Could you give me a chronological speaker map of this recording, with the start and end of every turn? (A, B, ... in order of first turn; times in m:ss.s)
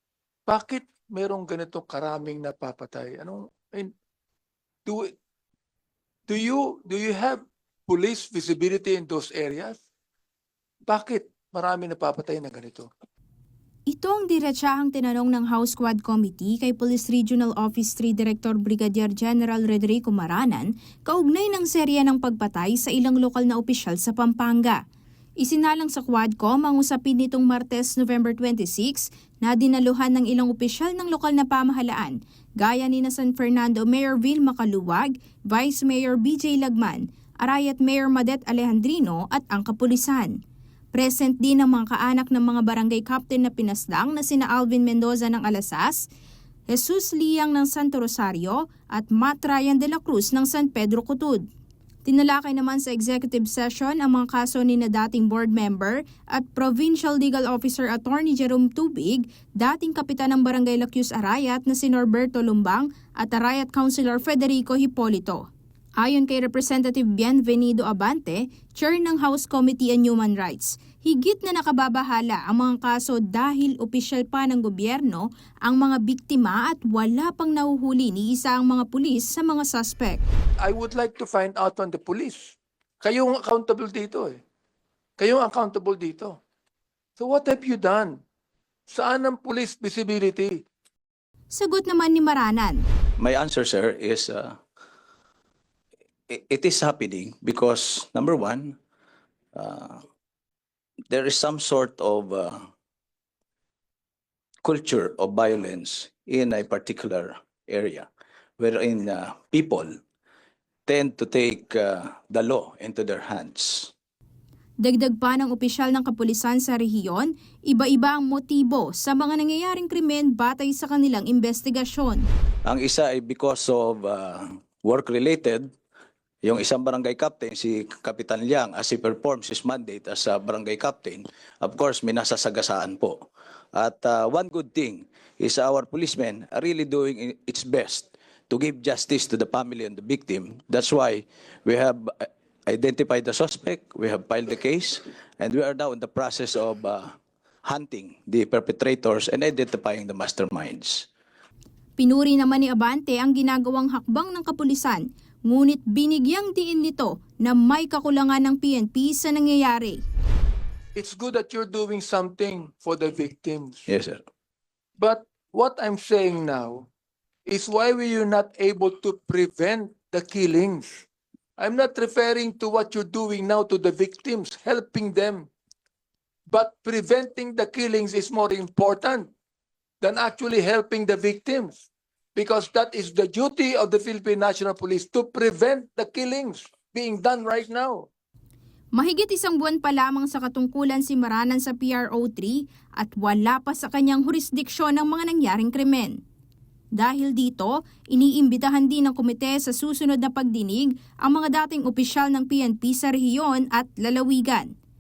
0:00.5-0:03.9 A
0:04.9-0:05.1 A
0:06.3-0:09.8 A
0:10.9-0:12.9 A
0:13.9-0:24.8 B
0:25.4-0:40.3 B
0:41.0-0:46.0 B
0:46.7-0:51.4 B
0:52.1-1:05.4 B
1:06.0-1:20.2 B
1:20.6-1:24.4 A
1:25.2-1:26.4 A
1:27.2-1:28.1 A
1:28.9-1:30.5 A
1:31.5-1:32.8 B
1:33.2-1:34.6 C
1:36.3-1:38.8 C
1:39.6-1:40.0 C
1:41.1-1:42.6 C
1:44.6-1:48.1 C
1:48.6-1:49.9 C
1:50.9-1:53.9 C
1:54.8-2:02.2 B
2:02.7-2:05.7 C
2:06.4-2:13.2 C
2:13.8-2:27.1 C
2:27.7-2:31.1 C
2:32.0-2:40.0 B
2:41.0-2:43.8 A
2:43.9-2:44.2 C
2:45.0-2:46.9 A
2:47.5-2:51.1 A
2:51.6-2:55.5 A
2:56.5-2:59.3 A
3:00.0-3:01.8 A
3:02.4-3:08.1 A
3:09.0-3:16.2 B
3:17.0-3:24.7 B